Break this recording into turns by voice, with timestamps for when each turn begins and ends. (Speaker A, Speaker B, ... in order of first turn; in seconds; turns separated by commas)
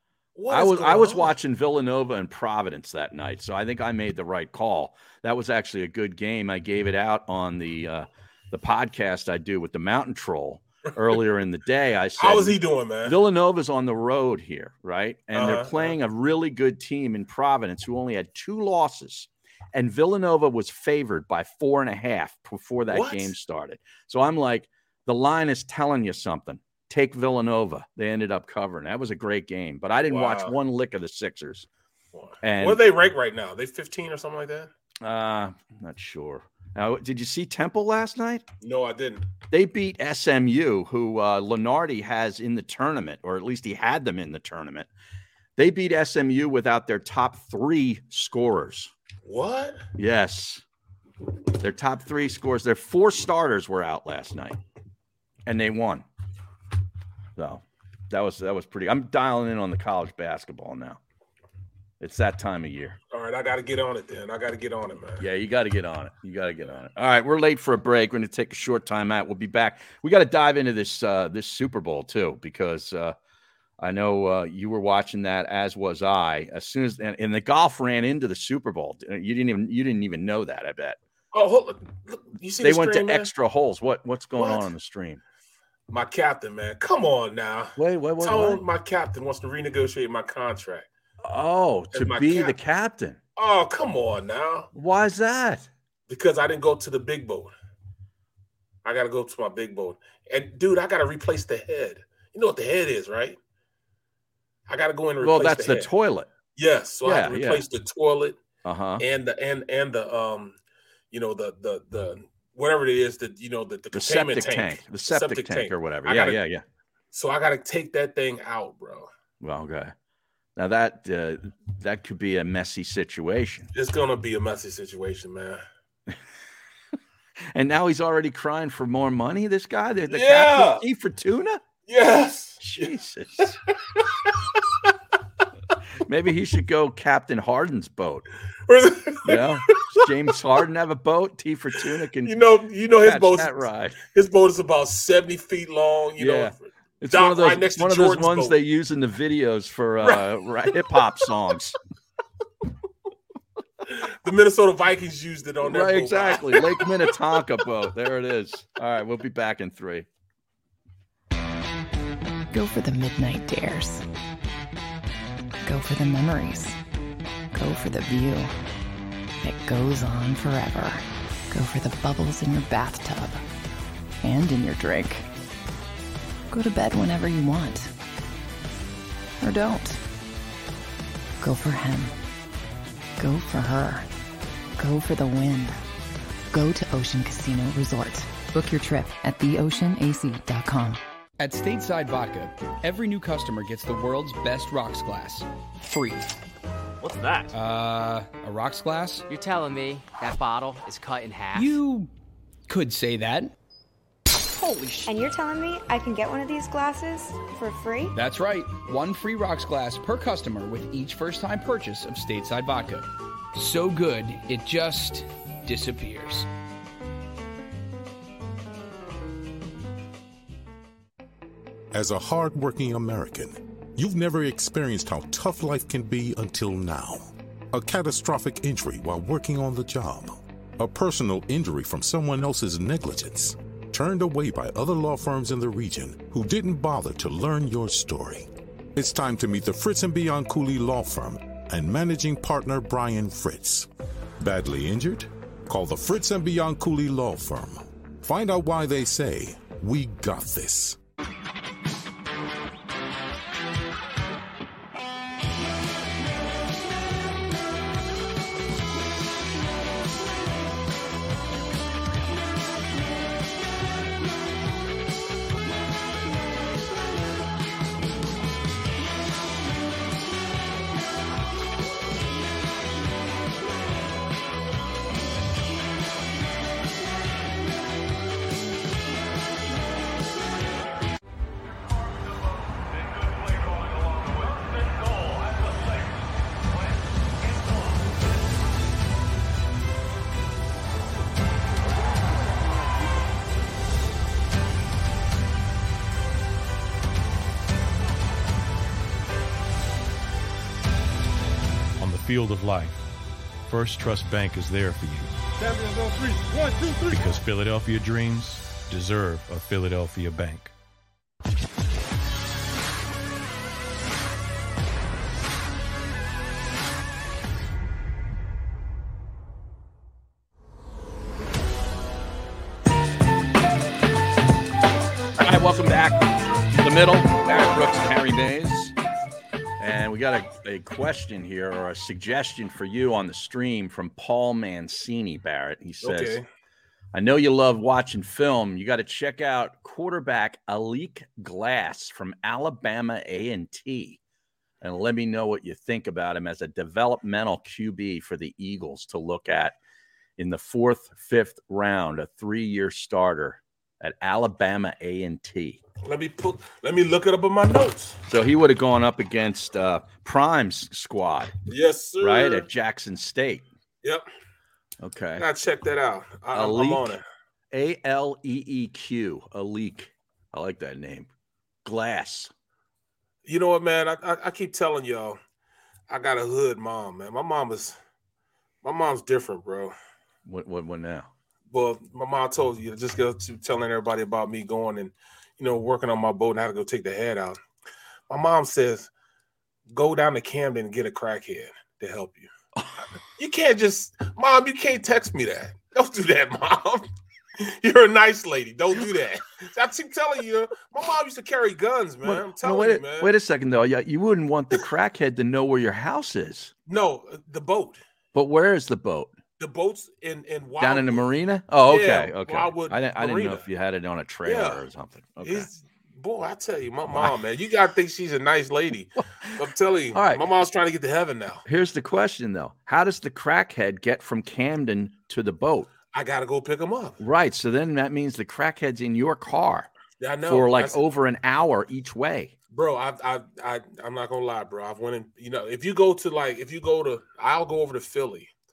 Speaker A: 0.3-1.4, Speaker B: 0.5-31.7, Speaker A: 12.2-13.2, Speaker A: 15.3-16.0, Speaker A: 22.9-23.3, Speaker A: 30.1-30.6, Speaker A: 32.1-34.7, Speaker B: 32.4-32.9, Speaker B: 35.0-38.4, Speaker A: 38.6-39.3, Speaker B: 39.5-44.9, Speaker B: 45.6-48.9, Speaker A: 49.2-49.9, Speaker B: 50.0-50.6, Speaker B: 51.6-54.6, Speaker B: 55.5-56.0, Speaker B: 57.4-61.0, Speaker B: 62.0-63.0, Speaker A: 63.1-65.2, Speaker B: 65.2-73.2, Speaker B: 73.8-81.0, Speaker A: 81.3-83.3, Speaker B: 82.6-85.2, Speaker A: 84.3-84.7, Speaker A: 85.9-90.9, Speaker B: 87.8-88.6, Speaker B: 91.2-93.2, Speaker A: 91.9-92.6, Speaker A: 93.4-94.7, Speaker B: 94.7-95.7, Speaker A: 96.1-97.5, Speaker A: 98.8-103.4, Speaker A: 104.7-105.9, Speaker B: 105.2-106.3, Speaker A: 106.6-108.4, Speaker B: 107.0-107.6, Speaker B: 108.7-109.0, Speaker A: 109.0-110.6, Speaker A: 111.1-116.4, Speaker B: 113.9-116.6, Speaker A: 117.1-119.1, Speaker B: 119.4-119.9, Speaker B: 120.6-123.7, Speaker A: 123.7-125.6, Speaker B: 127.5-131.6, Speaker A: 130.1-130.9, Speaker A: 131.9-132.9, Speaker B: 132.6-133.6, Speaker A: 133.4-134.9, Speaker B: 136.1-138.3, Speaker A: 138.7-140.1, Speaker B: 139.2-142.3, Speaker A: 142.2-148.6, Speaker B: 143.0-144.0, Speaker B: 146.2-151.8, Speaker A: 150.0-151.0, Speaker A: 153.9-157.1, Speaker B: 155.6-160.1, Speaker C: 162.5-164.0, Speaker C: 165.6-166.8, Speaker C: 167.5-168.5, Speaker C: 169.4-173.4, Speaker C: 174.2-175.3, Speaker C: 176.5-177.9, Speaker C: 179.4-180.0, Speaker C: 181.4-182.1, Speaker C: 183.2-184.1, Speaker C: 184.8-185.8, Speaker C: 186.5-191.0, Speaker D: 191.4-196.3, Speaker D: 197.5-199.3, Speaker E: 199.3-201.8, Speaker D: 201.5-202.1, Speaker D: 202.7-203.5, Speaker D: 204.5-205.1, Speaker F: 205.1-208.1, Speaker D: 208.2-216.5, Speaker G: 221.9-243.9, Speaker G: 244.4-251.0, Speaker H: 302.0-303.0, Speaker H: 303.7-305.3, Speaker H: 307.1-310.7, Speaker B: 325.4-328.9, Speaker B: 329.8-336.4, Speaker A: 336.0-336.4, Speaker B: 337.1-344.2, Speaker B: 344.8-349.8, Speaker B: 350.4-355.8, Speaker A: 356.0-358.2, Speaker B: 358.3-361.6, Speaker A: 361.7-362.7, Speaker B: 362.2-363.7, Speaker B: 365.0-365.5, Speaker A: 365.4-367.2, Speaker B: 366.5-367.2, Speaker B: 367.7-371.3, Speaker B: 371.8-372.5, Speaker A: 373.4-375.4, Speaker A: 376.1-378.0, Speaker A: 378.8-379.9, Speaker B: 380.5-381.3, Speaker A: 381.7-387.6, Speaker A: 388.3-389.1, Speaker A: 389.9-392.5, Speaker A: 393.4-403.3, Speaker B: 402.2-406.7, Speaker A: 406.9-408.0, Speaker B: 408.3-409.3, Speaker A: 409.6-411.3, Speaker B: 410.8-415.7, Speaker A: 411.9-413.7, Speaker A: 414.4-414.8, Speaker A: 415.4-421.6, Speaker B: 419.2-419.6, Speaker B: 420.1-420.5, Speaker B: 421.7-425.9, Speaker A: 426.1-427.2, Speaker B: 427.2-429.9, Speaker A: 430.2-431.0, Speaker B: 430.5-432.5, Speaker A: 432.7-438.5